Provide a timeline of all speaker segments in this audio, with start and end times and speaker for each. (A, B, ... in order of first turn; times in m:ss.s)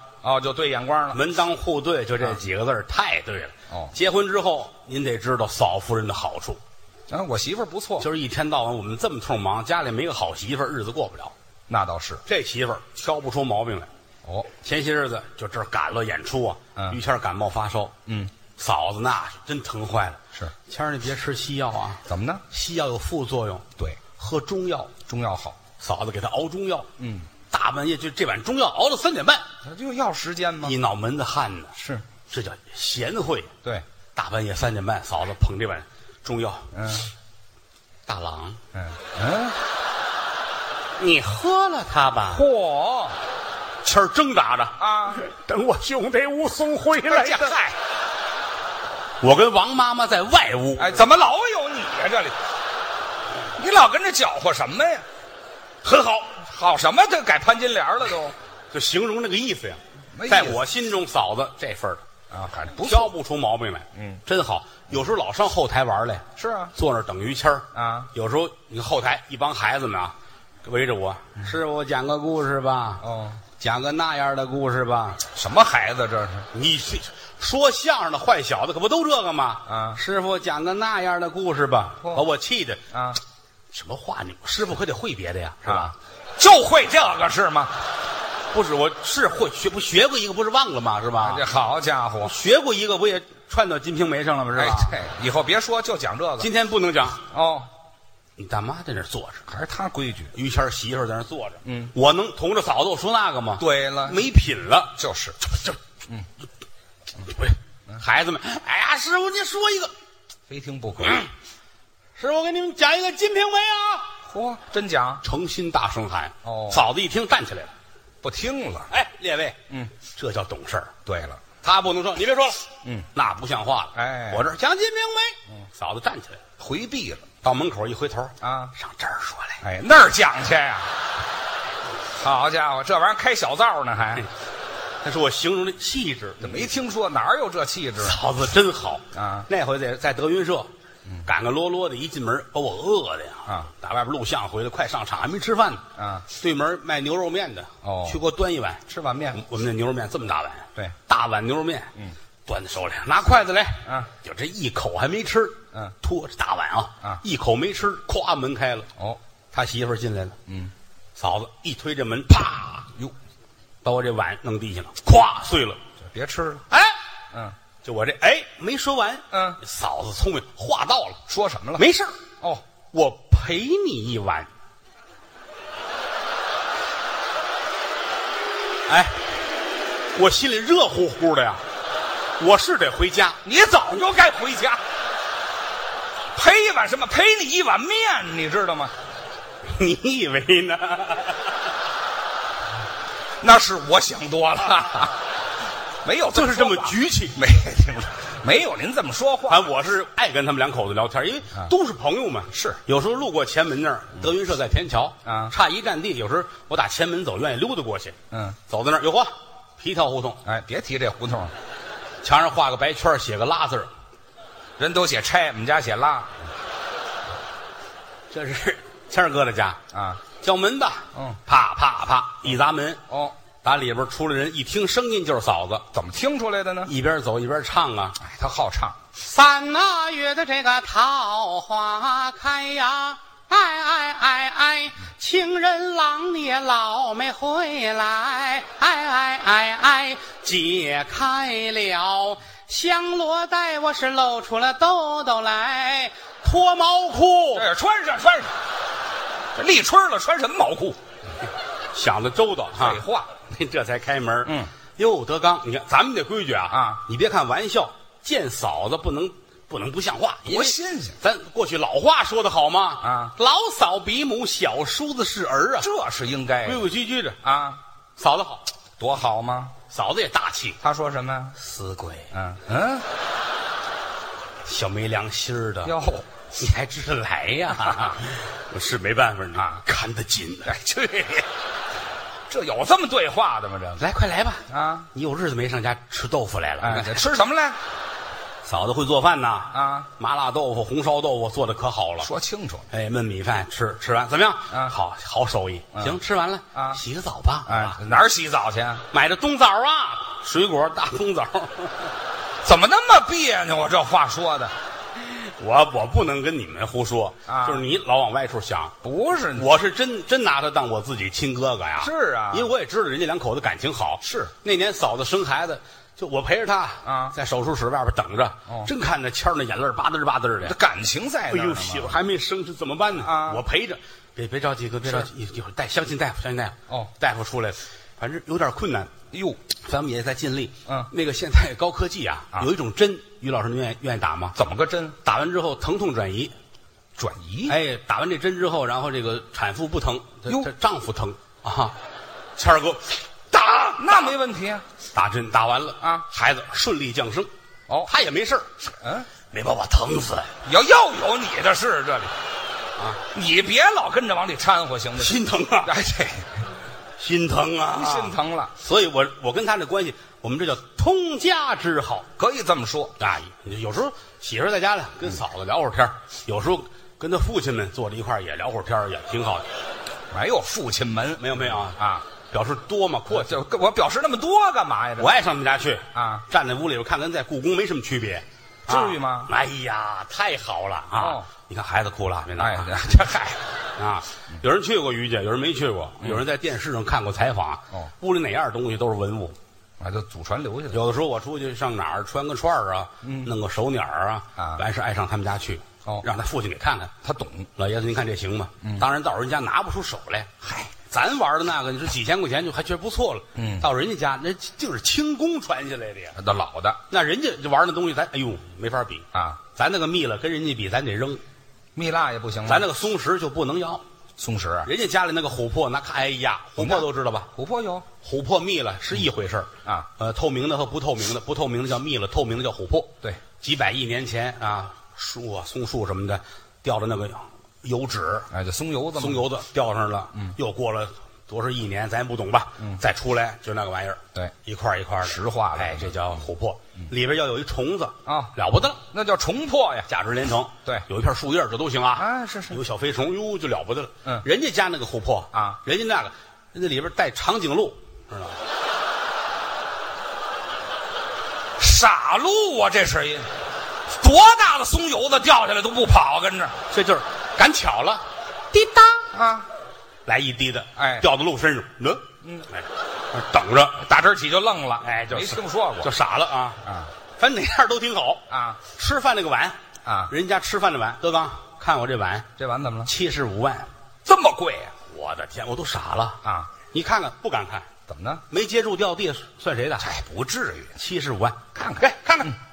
0:00.2-0:01.2 A
0:01.1-0:06.6 B
0:07.1-0:08.1 A
0:08.0-0:11.3 B
0:11.7-0:12.2 A
0:12.2-0:13.9 B
0:14.6-0:18.0 B
0:18.1-0:18.3 A
0:18.6-0:25.0 B
0:22.1-0:22.4 A
0:25.1-0:25.6 A
0:25.8-0:26.9 B
0:27.0-0:27.3 A
0:27.5-0:29.5 B
0:29.6-0:30.8 A
0:30.6-0:31.8 B
0:31.8-0:32.0 A
0:32.3-0:33.5 B
0:34.1-0:36.7 B
0:36.7-0:37.1 A
0:38.1-0:38.6 B
0:38.7-0:39.6 A
0:41.0-0:42.5 B
0:42.3-0:43.2 A
0:43.8-0:47.6 B
0:44.8-0:45.2 A
0:47.0-0:47.8 A
0:49.2-0:51.0 B
0:50.8-0:52.4 A
0:53.6-0:55.1 A
0:55.8-0:56.3 B
0:56.4-0:58.4 A
0:58.7-1:02.0 B
1:00.1-1:00.6 A
1:02.3-1:03.1 A
1:02.8-1:13.0 B
1:04.0-1:04.2 A
1:06.4-1:06.7 A
1:07.7-1:08.1 A
1:13.0-1:13.4 A
1:13.6-1:15.2 B
1:15.3-1:16.5 A
1:16.5-1:22.8 B
1:19.7-1:20.0 A
1:22.9-1:23.2 A
1:23.7-1:26.0 B
1:25.6-1:27.8 A
1:28.5-1:31.4 B
1:31.2-1:32.3 A
1:32.2-1:35.0 B
1:34.6-1:36.5 A
1:36.4-1:37.2 B
1:37.3-1:37.7 A
1:38.4-1:39.5 B
1:39.5-1:40.3 A
1:40.3-1:45.8 B
1:41.6-1:41.9 A
1:43.6-1:44.2 A
1:45.0-1:45.4 A
1:47.2-1:49.9 B
1:50.5-1:51.2 A
1:52.2-1:54.1 B
1:54.3-1:55.2 A
1:55.2-1:57.7 B
1:56.4-1:56.9 A
1:58.2-1:58.9 A
1:58.9-2:01.0 B
2:01.1-2:01.4 A
2:01.6-2:06.4 B
2:04.0-2:04.5 A
2:06.6-2:07.3 A
2:07.4-2:09.6 B
2:08.4-2:08.7 A
2:09.6-2:11.0 A
2:12.1-2:14.2 A
2:15.0-2:16.7 B
2:16.4-2:18.2 A
2:18.0-2:20.7 B
2:19.1-2:19.5 A
2:21.2-2:31.9 B
2:26.0-2:26.2 A
2:27.8-2:28.2 A
2:28.9-2:29.4 A
2:32.5-2:38.9 B
2:39.5-2:40.4 B
2:40.5-2:40.7 A
2:41.2-2:42.9 B
2:43.8-2:45.8 B
2:46.0-2:46.6 A
2:46.7-2:47.0 B
2:47.8-2:51.2 B
2:49.3-2:49.6 A
2:51.3-2:51.9 A
2:51.8-2:52.2 B
2:52.9-2:54.5 B
2:58.9-2:59.2 B
3:00.1-3:01.6 B
3:02.4-3:03.4 B
3:03.4-3:04.8 A
3:06.3-3:08.9 A
3:09.7-3:11.5 B
3:13.4-3:15.2 A
3:16.0-3:19.7 A
3:16.3-3:17.4 B
3:19.5-3:28.2 B
3:22.5-3:22.8 A
3:25.2-3:25.5 A
3:28.3-3:28.6 A
3:28.7-3:30.4 B
3:30.4-3:31.5 A
3:32.2-3:33.9 B
3:34.8-3:36.3 A
3:38.3-3:39.8 B
3:39.9-3:40.2 A
3:40.4-3:43.0 B
3:41.1-3:41.4 A
3:43.1-3:43.4 A
3:43.6-3:45.9 B
3:45.9-3:46.9 A
3:46.8-3:48.2 B
3:48.2-3:49.0 A
3:49.2-4:07.7 B
4:07.6-4:08.5 A
4:09.6-4:11.0 A
4:11.9-4:25.9 B
4:12.8-4:13.3 A
4:14.5-4:14.7 A
4:16.7-4:17.0 A
4:20.5-4:21.2 A
4:23.0-4:23.3 A
4:25.8-4:26.9 A
4:26.6-4:27.4 B
4:27.4-4:27.8 A
4:28.2-4:28.6 B
4:29.0-4:29.8 A
4:29.9-4:30.8 B
4:30.8-4:31.6 A
4:31.6-4:32.3 B
4:32.3-4:33.1 A
4:34.6-4:35.9 B
4:35.8-4:36.3 A
4:36.6-4:40.8 B
4:40.6-4:41.5 A
4:42.5-4:44.0 A
4:44.0-4:47.2 B
4:44.7-4:45.1 A
4:46.8-4:47.8 A
4:48.6-4:52.3 B
4:49.7-4:50.1 A
4:52.2-4:52.9 A
4:52.9-4:58.0 B
4:56.8-4:57.0 A
4:57.7-4:59.0 A
4:59.1-5:02.1 B
5:02.6-5:04.7 A
5:05.2-5:09.0 B
5:07.5-5:07.8 A
5:09.0-5:09.7 A
5:09.6-5:20.8 B
5:12.0-5:12.7 A
5:14.2-5:14.5 A
5:17.0-5:17.4 A
5:20.6-5:22.2 A
5:21.5-5:29.1 B
5:23.2-5:23.6 A
5:29.3-5:29.6 A
5:29.8-5:34.6 B
5:34.6-5:35.2 A
5:35.2-5:36.5 B
5:37.2-5:37.8 A
5:37.7-5:42.0 B
5:42.6-5:44.0 B
5:43.7-5:44.8 A
5:45.1-5:47.5 B
5:48.0-5:48.7 B
5:48.8-5:49.3 A
5:49.5-5:50.5 B
5:50.6-5:52.3 A
5:53.2-5:56.7 A
5:55.2-5:55.9 B
5:57.2-6:02.3 B
5:57.9-5:58.7 A
6:02.4-6:03.2 A
6:03.2-6:09.7 B
6:10.3-6:12.2 A
6:11.4-6:13.6 B
6:13.3-6:15.3 A
6:15.2-6:23.2 B
6:16.1-6:16.4 A
6:18.9-6:19.5 A
6:21.2-6:21.5 A
6:22.6-6:23.6 A
6:24.0-6:29.6 B
6:30.0-6:31.0 A
6:30.9-6:37.1 B
6:33.2-6:33.5 A
6:37.2-6:37.7 A
6:37.8-6:40.5 B
6:40.6-6:40.9 A
6:41.1-6:46.4 B
6:43.6-6:43.9 A
6:46.4-6:47.0 A
6:47.1-6:51.4 B
6:49.3-6:49.6 A
6:52.0-6:52.9 A
6:52.7-6:54.0 B
6:54.4-6:54.9 A
6:54.8-6:57.5 B
6:56.8-6:58.0 A
6:58.2-7:08.5 B
7:08.5-7:09.4 A
7:09.2-7:19.0 B
7:15.2-7:16.3 A
7:18.2-7:18.5 A
7:19.1-7:20.1 A
7:20.1-7:28.6 B
7:22.2-7:22.8 A
7:25.5-7:25.8 A
7:31.8-7:33.5 A
7:34.1-7:36.8 A
7:36.9-7:39.2 B
7:39.3-7:39.7 A
7:40.2-7:44.0 B
7:41.0-7:41.3 A
7:44.0-7:46.1 A
7:45.0-7:46.8 B
7:46.8-7:47.1 A
7:47.4-7:49.8 B
7:48.5-7:48.8 A
7:50.0-7:50.3 A
7:50.3-7:52.5 B
7:52.6-7:53.1 A
7:53.0-7:53.9 B
7:54.2-7:54.9 A
7:55.1-7:57.9 B
7:56.4-7:56.7 A
7:58.1-7:58.4 A
7:58.5-8:00.1 B
8:00.0-8:01.0 A
8:01.0-8:02.6 B
8:01.8-8:02.5 A